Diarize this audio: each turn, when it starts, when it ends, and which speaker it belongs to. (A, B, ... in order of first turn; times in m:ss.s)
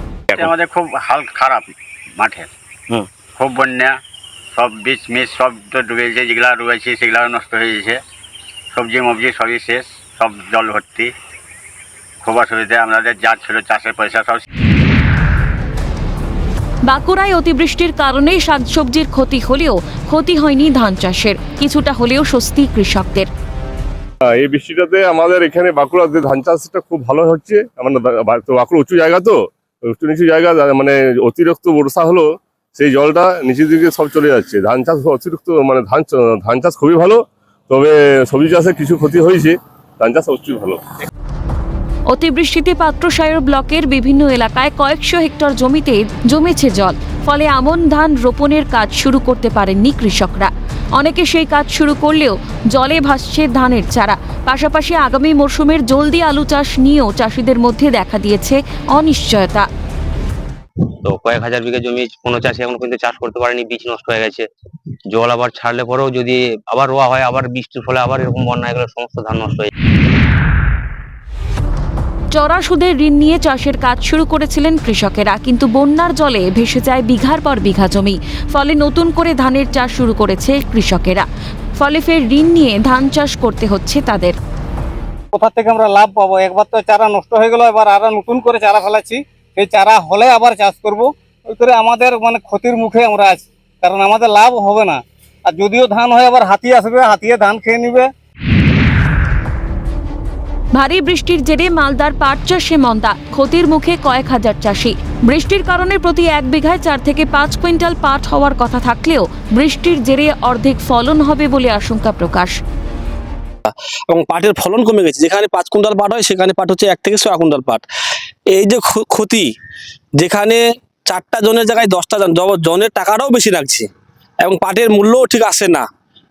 0:00.3-0:02.5 A
0:03.4-0:04.0 A
0:04.5-0:08.0 A
0:08.7-0:11.1 A
0:12.2-0:14.4 A
0:16.9-0:23.3 B
0:24.3-0:29.4 C
0:29.9-0:40.8 C
0:42.1-0:59.7 B
1:01.0-1:04.4 D
1:05.1-1:09.7 D
1:12.3-1:21.2 B
1:21.8-1:24.3 B
1:25.3-1:38.1 E
1:40.7-1:52.6 B
1:53.7-1:57.8 F
1:58.5-1:59.5 F
2:00.2-2:03.9 F
2:04.4-2:05.8 F